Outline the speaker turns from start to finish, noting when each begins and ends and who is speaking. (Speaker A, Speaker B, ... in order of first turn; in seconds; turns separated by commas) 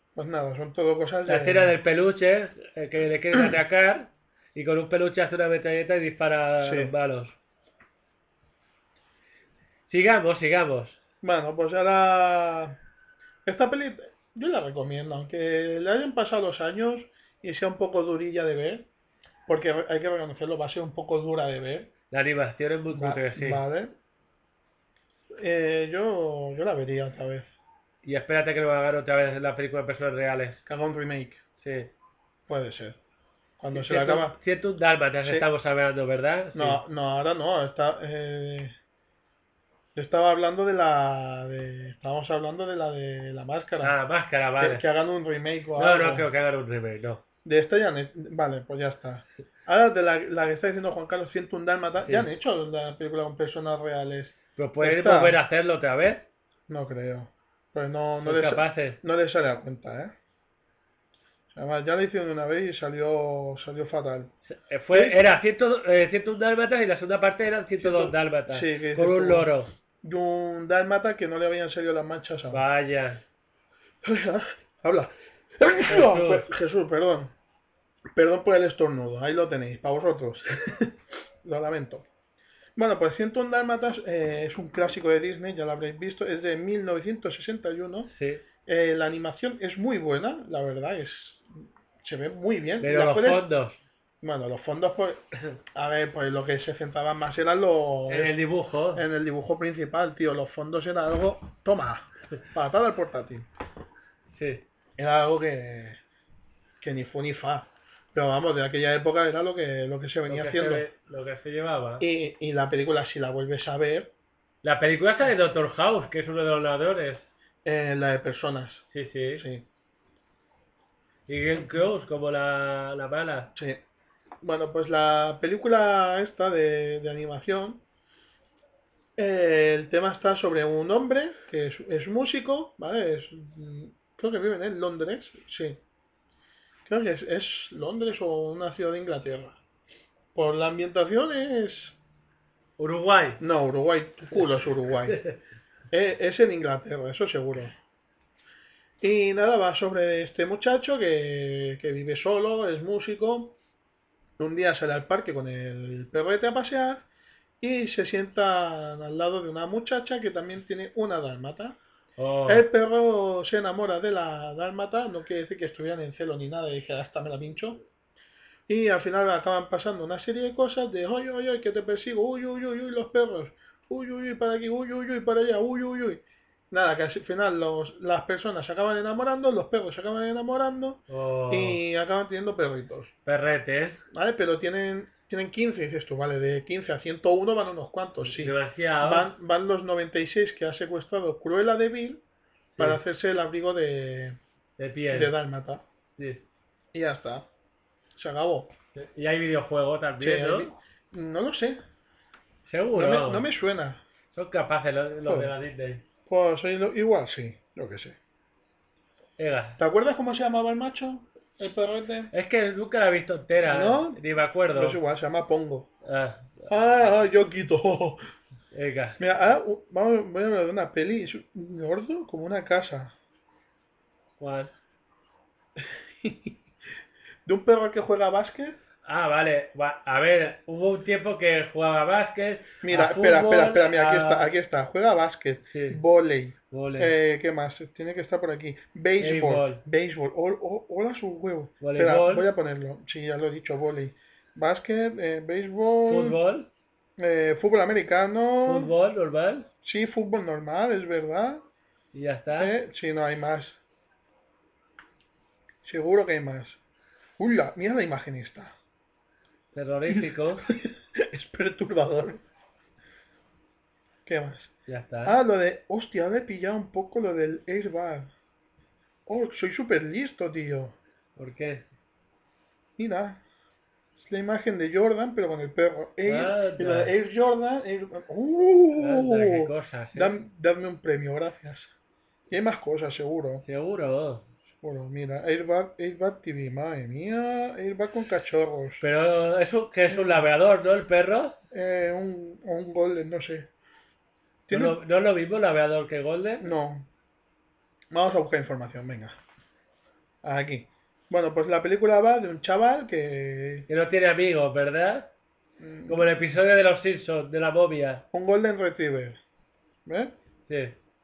Speaker A: 0.1-1.8, Speaker B: 1.3-7.3, Speaker A: 6.6-6.9, Speaker B: 9.9-11.0, Speaker A: 11.2-12.8, Speaker A: 13.4-18.9, Speaker A: 19.5-21.9, Speaker B: 22.1-23.6, Speaker A: 22.9-23.9, Speaker A: 25.4-27.5, Speaker B: 28.0-30.6, Speaker A: 30.6-31.4, Speaker B: 31.6-31.9, Speaker A: 32.5-33.0, Speaker A: 33.6-34.4, Speaker B: 33.7-36.8, Speaker A: 36.5-38.7, Speaker A: 39.9-43.9, Speaker B: 43.8-44.8, Speaker A: 44.6-46.3, Speaker B: 45.8-47.2, Speaker A: 47.4-55.4, Speaker B: 54.5-56.2, Speaker A: 56.7-60.1, Speaker B: 58.2-59.0, Speaker A: 61.5-64.3, Speaker B: 64.5-69.7, Speaker A: 64.9-65.2, Speaker A: 67.8-69.5, Speaker A: 70.0-72.6, Speaker B: 72.5-73.2, Speaker A: 74.0-77.3, Speaker B: 75.8-76.5, Speaker A: 78.1-82.0, Speaker A: 82.8-88.1, Speaker B: 88.1-88.4, Speaker A: 88.7-91.5, Speaker A: 92.0-93.4, Speaker B: 92.8-93.8, Speaker A: 94.2-98.3, Speaker B: 98.1-99.0, Speaker A: 98.9-103.5, Speaker B: 104.3-104.6, Speaker A: 105.0-106.0, Speaker A: 106.8-110.8, Speaker B: 110.3-112.0, Speaker A: 112.0-114.1, Speaker B: 114.6-117.2, Speaker A: 117.6-119.6, Speaker B: 118.9-119.4, Speaker B: 121.3-123.5, Speaker A: 123.5-123.8, Speaker A: 124.4-127.8, Speaker A: 129.2-135.8, Speaker A: 136.8-139.6, Speaker A: 140.3-141.9, Speaker B: 142.8-143.4, Speaker A: 143.4-145.2, Speaker B: 145.1-145.3, Speaker A: 145.9-147.8, Speaker A: 149.0-153.5, Speaker A: 154.4-157.0, Speaker A: 157.6-161.8, Speaker B: 162.2-162.7, Speaker A: 162.5-167.8, Speaker A: 168.7-183.1, Speaker B: 181.1-181.8, Speaker B: 183.2-184.0, Speaker A: 184.1-192.2, Speaker B: 188.2-189.3, Speaker A: 192.8-194.4, Speaker B: 194.8-195.3, Speaker A: 195.1-195.8, Speaker B: 196.2-196.4, Speaker A: 196.9-197.4, Speaker A: 198.2-198.7, Speaker B: 198.9-200.7, Speaker A: 200.2-201.8, Speaker B: 202.7-203.4, Speaker A: 202.9-204.0, Speaker B: 204.3-206.0, Speaker A: 205.2-205.5, Speaker A: 206.3-208.2, Speaker B: 209.4-209.8, Speaker A: 209.8-212.3, Speaker B: 212.3-215.0, Speaker A: 213.6-214.2, Speaker A: 214.7-215.9, Speaker B: 216.0-216.7, Speaker A: 216.7-218.2, Speaker B: 218.7-219.2, Speaker A: 219.2-223.1, Speaker B: 224.4-224.7, Speaker A: 225.8-226.5, Speaker A: 227.4-228.8, Speaker B: 229.0-234.5, Speaker A: 232.8-246.4, Speaker B: 235.7-236.0, Speaker B: 236.7-237.1, Speaker B: 239.2-239.8, Speaker B: 241.8-242.5, Speaker B: 246.1-246.7, Speaker A: 247.2-248.9, Speaker B: 248.7-249.7, Speaker A: 249.8-251.6, Speaker B: 252.1-252.7, Speaker A: 252.5-253.8, Speaker A: 255.8-256.8, Speaker A: 257.4-258.7, Speaker B: 259.7-260.7, Speaker A: 260.1-262.4, Speaker A: 264.2-264.7, Speaker B: 264.9-265.4, Speaker A: 265.2-268.3, Speaker A: 269.3-270.9, Speaker B: 271.4-271.8, Speaker A: 273.0-273.4, Speaker A: 274.2-281.9, Speaker B: 276.3-277.1, Speaker B: 278.9-280.4, Speaker A: 282.5-283.6, Speaker B: 283.6-284.4, Speaker A: 284.8-289.0, Speaker B: 289.0-291.6, Speaker A: 290.1-290.4, Speaker A: 291.7-293.7, Speaker A: 294.7-295.0, Speaker B: 294.7-296.7, Speaker A: 296.6-297.1, Speaker A: 298.1-299.4, Speaker A: 300.4-303.9, Speaker B: 303.9-305.3, Speaker A: 305.8-306.3, Speaker B: 306.1-308.2, Speaker A: 308.3-309.4, Speaker A: 310.1-310.3, Speaker B: 310.7-310.9